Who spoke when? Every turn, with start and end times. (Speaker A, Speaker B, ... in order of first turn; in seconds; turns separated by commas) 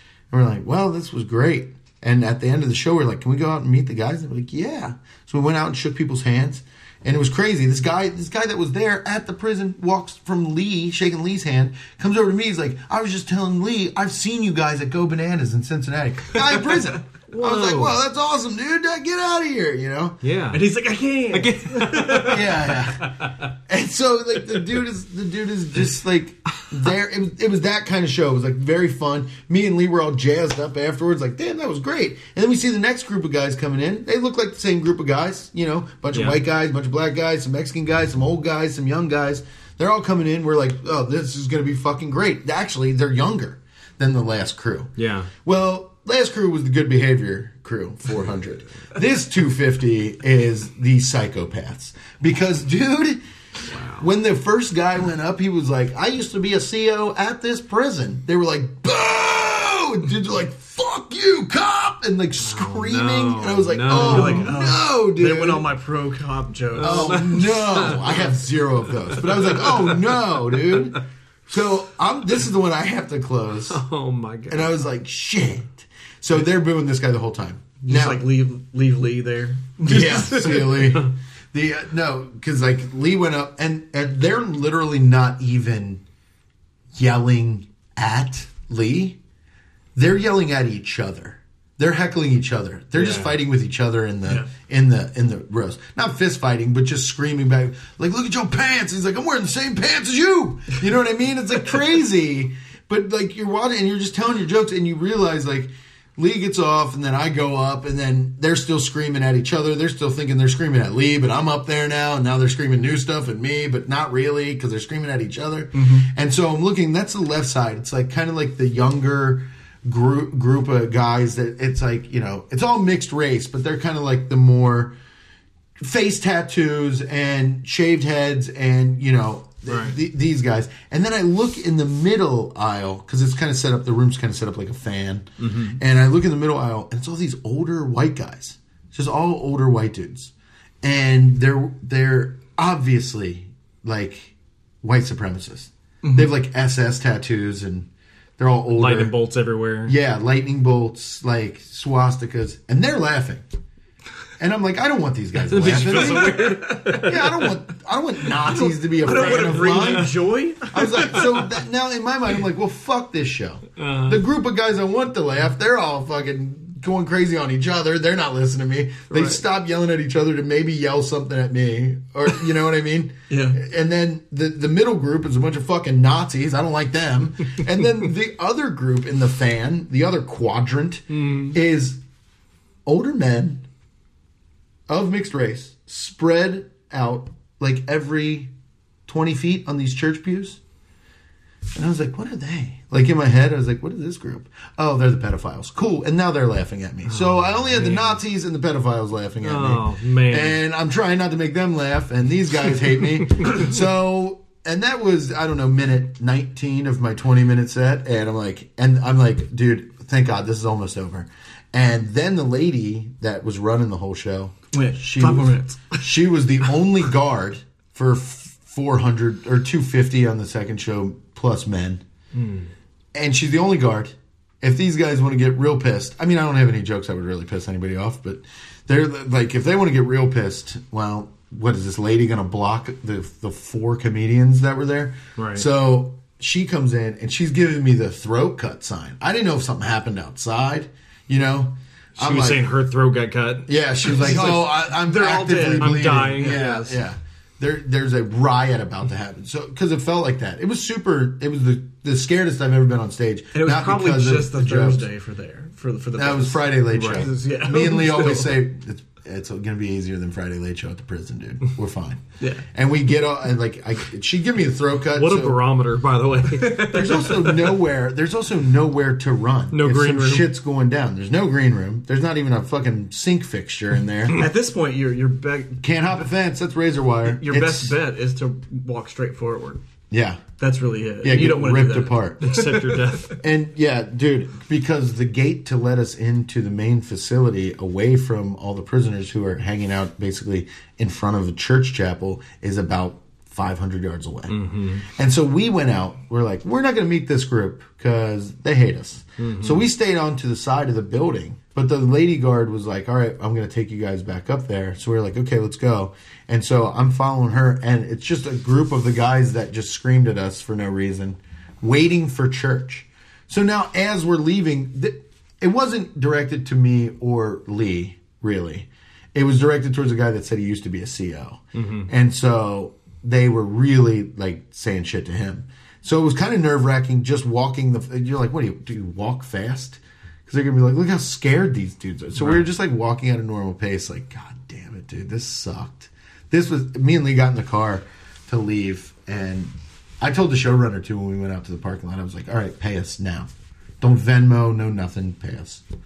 Speaker A: 0.3-20.2, Speaker B: 17.3-18.0, Speaker B: 20.2-20.7, Speaker C: 20.5-22.8, Speaker B: 21.3-22.6, Speaker A: 22.1-53.2, Speaker B: 36.1-36.4, Speaker B: 45.0-45.3, Speaker B: 53.7-54.1, Speaker A: 54.0-65.7, Speaker B: 62.4-64.6, Speaker C: 63.9-67.4, Speaker B: 66.8-68.3, Speaker A: 66.8-73.8, Speaker B: 69.0-70.3, Speaker B: 73.7-74.8, Speaker A: 74.5-78.2, Speaker C: 77.8-80.9, Speaker A: 79.8-86.0, Speaker A: 87.0-89.2, Speaker A: 90.0-124.9, Speaker B: 93.0-93.4, Speaker C: 115.7-116.1, Speaker A: 125.8-140.3, Speaker B: 129.7-130.0, Speaker B: 135.4-135.8, Speaker A: 140.8-149.2, Speaker C: 146.0-146.3, Speaker B: 148.7-150.0, Speaker A: 149.9-153.4, Speaker A: 154.4-160.1, Speaker B: 155.5-157.5, Speaker C: 155.8-157.5, Speaker C: 158.3-161.4, Speaker B: 159.4-160.1, Speaker A: 160.7-182.0, Speaker B: 163.8-164.2, Speaker B: 169.1-169.4, Speaker C: 173.3-173.6, Speaker B: 181.1-181.6, Speaker A: 182.9-183.7, Speaker A: 184.9-188.5, Speaker A: 189.1-190.6, Speaker A: 191.8-222.0, Speaker B: 197.1-198.2, Speaker B: 199.4-200.6, Speaker C: 214.7-216.1, Speaker B: 222.3-222.7, Speaker A: 223.2-242.6, Speaker B: 235.4-235.7, Speaker B: 242.2-244.5, Speaker A: 243.7-255.1, Speaker C: 244.1-246.9, Speaker B: 245.5-246.9, Speaker C: 253.5-258.6, Speaker A: 256.2-262.2, Speaker B: 256.9-257.3, Speaker A: 262.7-265.6, Speaker B: 265.1-267.7, Speaker C: 266.6-267.2, Speaker A: 266.8-274.4, Speaker B: 269.7-270.5, Speaker C: 274.4-275.8, Speaker A: 275.8-278.0, Speaker C: 277.3-279.8, Speaker A: 280.1-280.4, Speaker C: 280.6-283.3, Speaker A: 281.2-282.5, Speaker B: 282.4-283.4, Speaker A: 283.4-343.5, Speaker B: 294.5-295.0, Speaker B: 299.4-299.9, Speaker B: 321.8-322.1, Speaker A: 344.0-345.8